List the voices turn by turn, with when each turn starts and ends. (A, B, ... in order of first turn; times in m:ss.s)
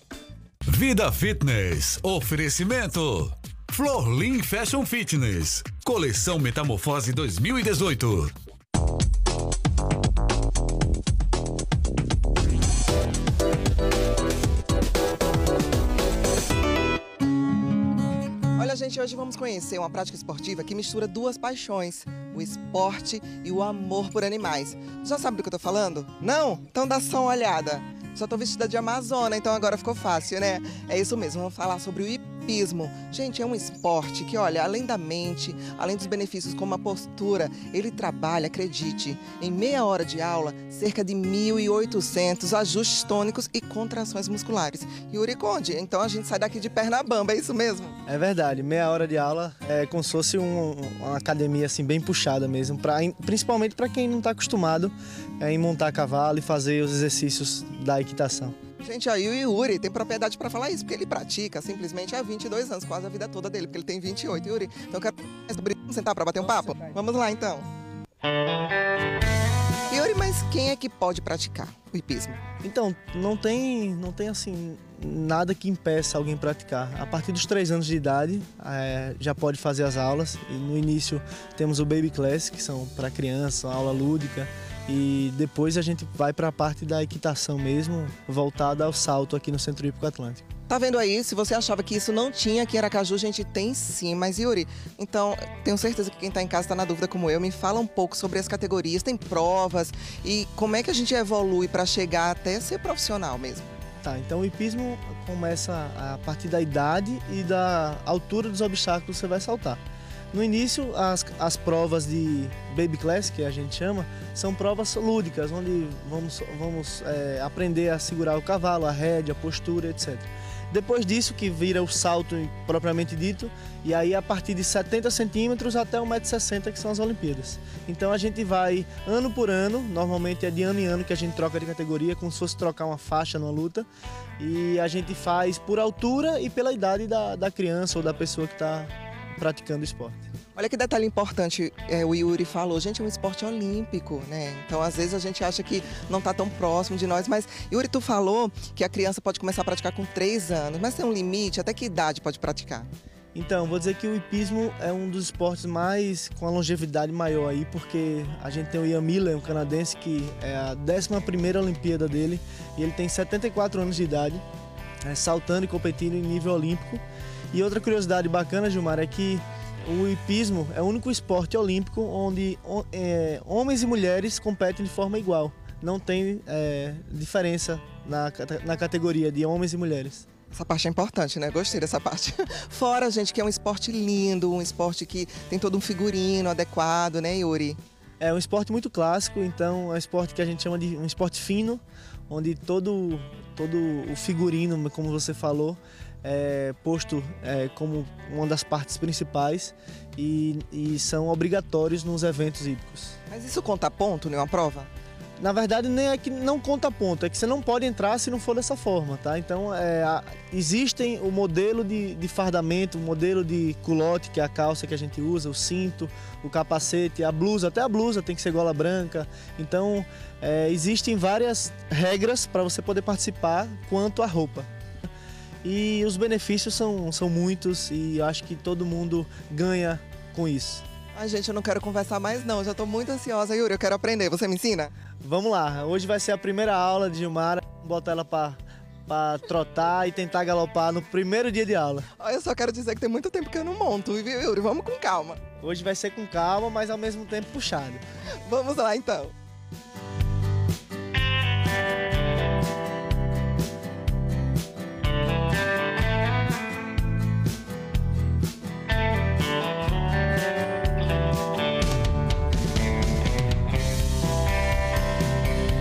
0:00.7-0:08.3 A
0:18.6-0:48.0 B
0:48.1-0:58.6 C
0:58.8-1:07.7 B
1:09.9-1:12.4 B
1:12.6-1:30.4 C
1:30.7-1:43.8 B
1:44.0-1:49.8 C
1:50.3-2:13.9 C
2:14.4-2:20.2 C
2:20.6-2:32.9 B
2:33.3-2:44.4 C
2:45.0-3:00.2 C
3:00.5-3:07.8 B
3:08.2-3:23.2 C
3:23.3-3:24.9 B
3:25.4-3:44.7 C
3:45.6-3:50.8 C
3:51.1-3:54.9 B
3:55.2-4:02.1 C
4:02.2-4:05.4 B
4:05.6-4:08.0 C
4:08.4-4:09.3 B